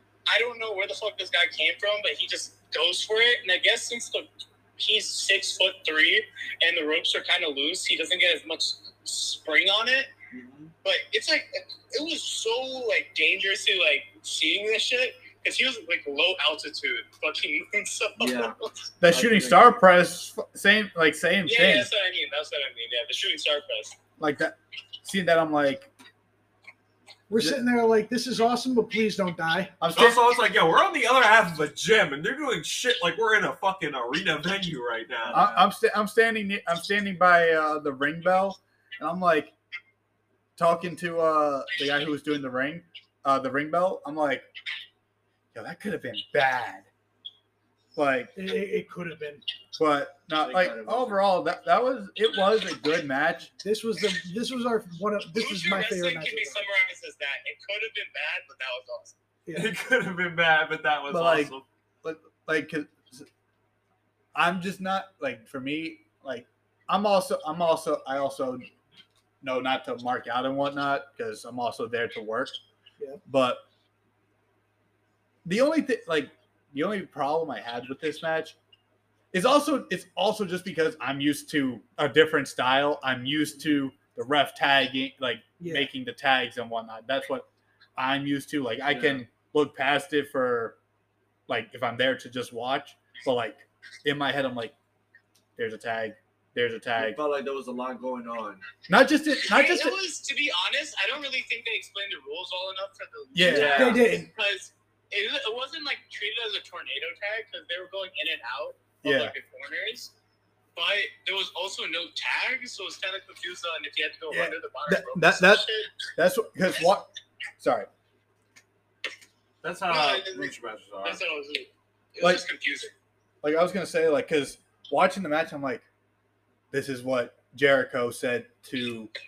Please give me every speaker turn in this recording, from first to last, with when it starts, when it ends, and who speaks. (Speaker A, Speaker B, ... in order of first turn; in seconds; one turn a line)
Speaker A: 0.3-10.1
Speaker B: 10.3-10.7
Speaker A: 10.8-18.7
Speaker B: 18.2-18.6
Speaker C: 19.0-21.9
Speaker B: 19.1-19.8
Speaker A: 21.4-23.9
Speaker C: 24.2-25.9
Speaker D: 27.3-29.7
Speaker C: 27.3-27.6
Speaker C: 29.8-30.2
Speaker E: 29.9-35.5
Speaker B: 35.2-35.6
Speaker C: 35.3-39.5
Speaker C: 40.6-44.5
Speaker C: 45.5-46.9
Speaker C: 47.9-48.3
Speaker D: 48.3-49.4
Speaker C: 49.8-53.5
Speaker B: 50.4-51.3
Speaker D: 53.6-56.6
Speaker A: 55.3-59.1
Speaker D: 59.5-59.7
Speaker E: 59.5-61.6
Speaker C: 61.1-63.3
Speaker C: 64.3-68.7
Speaker C: 69.4-72.6
Speaker C: 73.2-73.6
Speaker C: 75.4-78.5
Speaker C: 79.3-90.8
Speaker D: 85.6-85.9
Speaker B: 88.9-89.2
Speaker C: 91.5-94.8
Speaker C: 95.6-97.2
Speaker B: 97.0-98.6
Speaker C: 98.9-100.0
Speaker A: 99.4-110.1
Speaker C: 103.3-104.0
Speaker E: 103.5-104.0
Speaker B: 103.6-104.0
Speaker D: 103.6-104.3
Speaker C: 109.0-109.3
Speaker A: 110.7-116.0
Speaker C: 114.3-117.1
Speaker C: 117.6-117.9
Speaker E: 119.6-121.2
Speaker A: 119.9-122.9
Speaker C: 123.4-125.8
Speaker C: 126.7-129.1